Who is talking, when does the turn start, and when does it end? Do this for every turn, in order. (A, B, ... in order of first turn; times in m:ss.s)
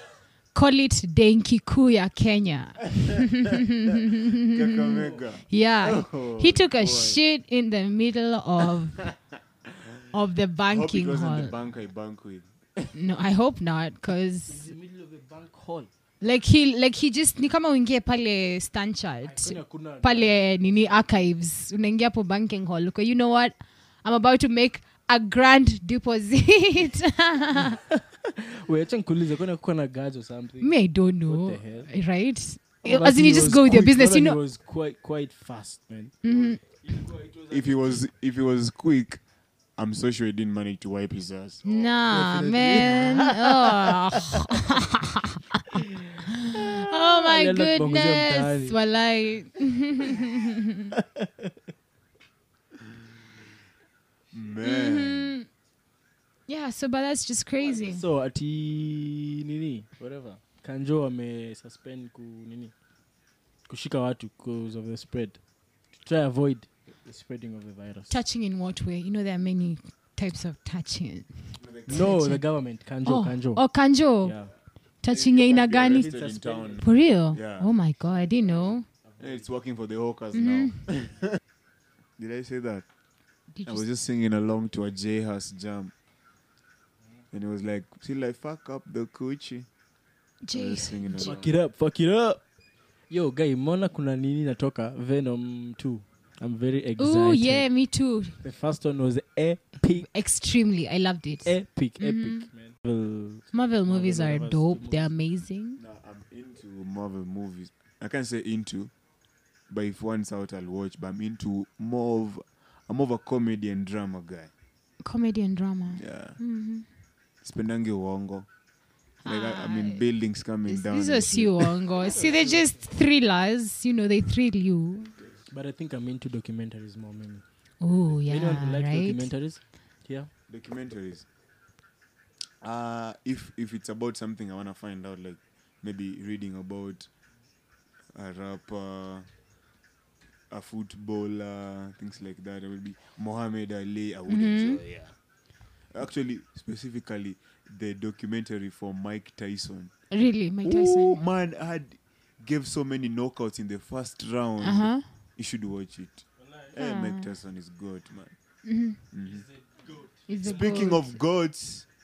0:00.5-0:09.1 A
0:04.5-0:07.2 B
0:10.1-0:11.5 A
0:10.7-0:12.9 B
0:12.9-0:14.7 A
0:14.5-0:15.9 C
0:16.2-0:27.8 A
0:19.2-0:21.1 C
0:27.9-0:31.9 C
0:30.6-0:34.4 A
0:32.8-0:38.0 C
0:36.2-0:36.6 A
0:37.5-0:39.2 B
0:39.8-0:41.6 B
0:41.6-0:45.7 A
0:41.7-0:44.7 C
0:45.8-0:48.8 C
0:46.4-0:50.9 A
0:50.9-0:51.5 C
0:54.3-0:55.4 B
0:54.6-0:55.5 A
0:56.5-0:58.0 A
0:57.6-1:02.7 C
1:03.7-1:05.4 C
1:06.0-1:08.1 C
1:08.1-1:12.4 A
1:11.6-1:12.1 B
1:11.9-1:13.6 C
1:13.0-1:14.3 A
1:14.2-1:14.5 C
1:15.0-1:16.0 A
1:15.1-1:17.7 B
1:15.6-1:16.8 C
1:16.8-1:18.8 A
1:19.0-1:19.5 C
1:19.2-1:21.4 B
1:20.3-1:20.8 A
1:22.2-1:22.9 B
1:23.5-1:23.9 A
1:23.6-1:25.9 B
1:27.3-1:29.7 B
1:30.4-1:31.3 A
1:30.5-1:31.5 B
1:31.2-1:32.4 C
1:33.1-1:37.7 C
1:37.0-1:38.4 A
1:38.4-1:40.1 C
1:40.1-1:42.5 A
1:41.4-1:45.1 C
1:43.5-1:45.8 A
1:45.8-1:48.9 B
1:49.7-1:54.5 B
1:55.0-1:56.9 A
1:55.9-1:56.4 B
1:57.4-1:58.5 B
1:59.2-2:00.0 A
1:59.2-2:01.8 B
2:00.6-2:05.1 A
2:02.0-2:02.8 C
2:05.5-2:07.4 C
2:07.8-2:09.3 A
2:08.3-2:10.3 C
2:10.5-2:11.3 B
2:12.6-2:17.1 B
2:18.1-2:19.3 B
2:20.5-2:25.1 B
2:24.3-2:24.8 A
2:25.9-2:29.9 B
2:30.1-2:31.2 A
2:30.6-2:38.4 B
2:34.6-2:35.0 A
2:36.4-2:36.7 C
2:36.8-2:37.3 A
2:38.6-2:39.0 A
2:39.1-2:39.5 B
2:39.2-2:40.8 C
2:40.3-2:41.2 A
2:40.4-2:41.9 B